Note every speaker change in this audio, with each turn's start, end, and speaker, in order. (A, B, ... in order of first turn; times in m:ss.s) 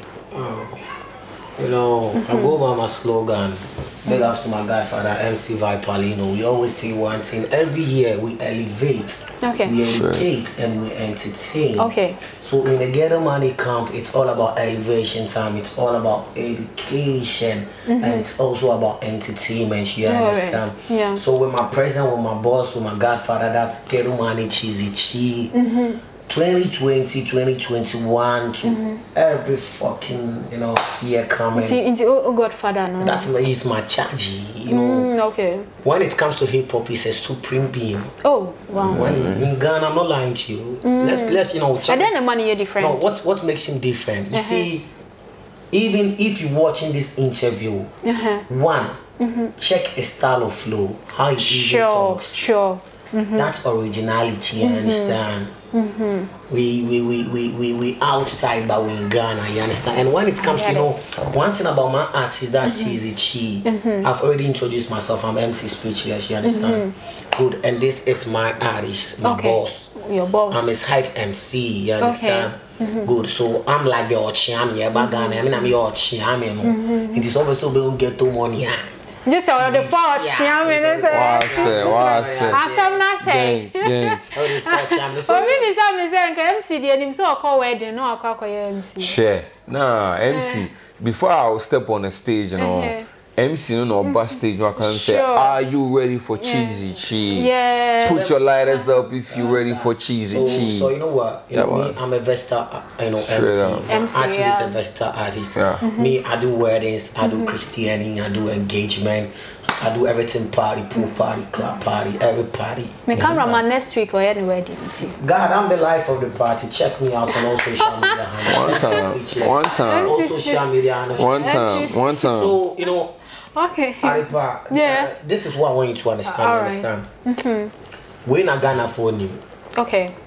0:00.3-0:00.8 A
0:01.6-0:25.5 A
0:02.1-0:02.6 B
0:09.4-0:09.7 B
0:09.8-0:10.3 C
0:11.8-0:12.2 B
0:17.8-0:18.3 B
0:20.0-0:21.2 B
0:25.5-0:26.0 B
0:26.3-0:31.8 A
0:28.6-0:29.0 B
0:31.5-0:33.3 B
0:33.0-0:35.1 A
0:34.7-0:35.7 B
0:35.8-0:38.1 A
0:38.2-0:39.0 B
0:38.8-0:42.1 A
0:38.8-0:39.5 C
0:40.8-0:43.0 B
0:42.8-0:44.8 A
0:44.3-0:44.7 B
0:45.7-0:47.9 A
0:48.0-0:48.4 B
0:48.5-0:49.0 A
0:49.2-0:49.5 B
0:49.6-0:52.4 A
0:51.4-0:53.5 B
0:53.3-0:55.5 A
0:54.6-0:55.2 B
0:55.7-0:56.3 B
0:56.5-1:09.9 A
1:00.4-1:00.9 B
1:02.6-1:03.0 B
1:03.6-1:04.1 B
1:06.4-1:06.9 B
1:09.2-1:10.7 B
1:10.5-1:18.9 A
1:12.0-1:13.1 B
1:14.9-1:15.7 B
1:16.6-1:17.3 B
1:19.2-1:29.1 B
1:19.5-1:23.0 A
1:21.1-1:22.6 C
1:23.2-1:24.3 C
1:24.3-1:25.7 A
1:29.0-1:37.5 C
1:30.3-1:30.7 B
1:32.6-1:33.0 B
1:34.0-1:35.6 B
1:36.4-1:38.9 B
1:38.0-1:40.9 C
1:38.0-1:38.4 A
1:39.3-1:53.6 A
1:40.3-1:40.6 B
1:41.5-1:42.0 C
1:43.2-1:43.9 C
1:43.9-1:44.7 B
1:45.5-1:45.8 C
1:45.8-1:46.2 B
1:47.2-1:47.5 B
1:53.1-1:55.2 B
1:55.2-2:03.1 A
1:57.8-1:59.0 B
1:58.4-2:00.2 C
1:59.8-2:00.6 B
2:01.2-2:02.6 C
2:01.4-2:02.3 B
2:03.5-2:05.1 B
2:04.0-2:07.1 A
2:06.2-2:07.7 B
2:08.2-2:09.4 A
2:09.8-2:10.1 B